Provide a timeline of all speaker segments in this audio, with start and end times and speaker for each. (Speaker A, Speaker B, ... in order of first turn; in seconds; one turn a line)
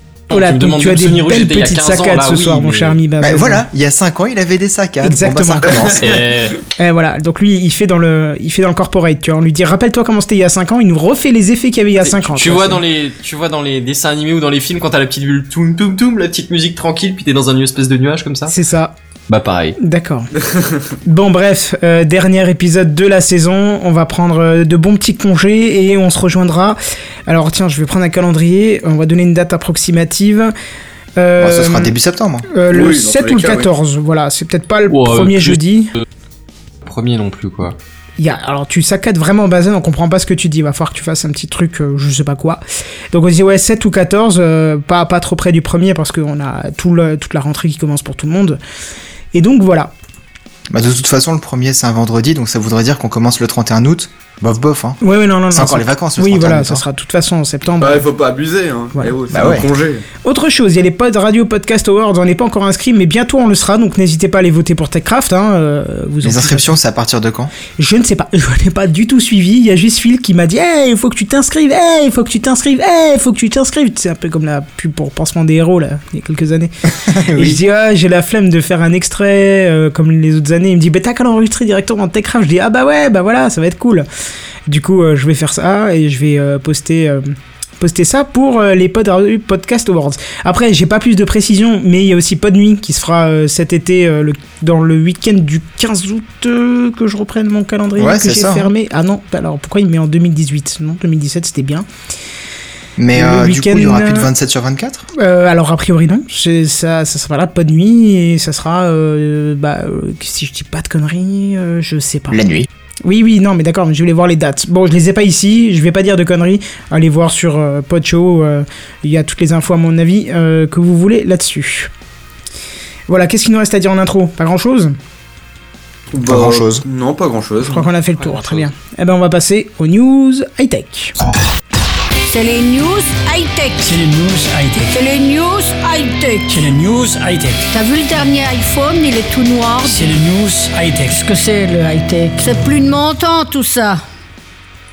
Speaker A: 0.3-3.0
Speaker B: 0.3-3.6
Speaker C: 3.2-6.2
Speaker B: 5.0-5.8
Speaker A: 6.0-6.6
Speaker B: 6.8-12.8
Speaker A: 12.0-18.5
Speaker B: 18.5-18.9
Speaker A: 19.3-19.8
Speaker B: 19.8-20.3
Speaker D: 20.5-20.8
Speaker B: 21.0-30.5
Speaker B: 31.2-31.9
Speaker C: 31.4-32.5
Speaker B: 32.5-35.9
Speaker D: 32.7-33.7
Speaker A: 34.9-35.6
Speaker A: 36.9-37.8
Speaker B: 38.2-42.6
Speaker B: 43.1-48.6
Speaker B: 49.3-49.9
Speaker C: 50.7-56.9
Speaker B: 55.0-58.0
Speaker D: 57.8-60.0
Speaker C: 59.3-59.7
Speaker B: 60.2-66.7
Speaker C: 66.2-67.5
Speaker B: 67.8-76.7
Speaker C: 76.9-77.6
Speaker B: 77.3-84.0
Speaker B: 84.7-101.8
Speaker C: 98.0-98.7
Speaker C: 103.0-105.1
Speaker B: 103.1-104.3
Speaker B: 105.1-112.4
Speaker C: 112.3-112.7
Speaker B: 113.0-121.9
Speaker B: 123.1-124.9
Speaker D: 126.1-128.6
Speaker C: 126.2-126.8
Speaker B: 127.6-131.2
Speaker E: 132.3-133.9
Speaker F: 133.8-135.0
Speaker E: 134.9-136.7
Speaker F: 136.5-137.7
Speaker E: 137.7-140.1
Speaker F: 139.8-141.2
Speaker E: 141.1-144.0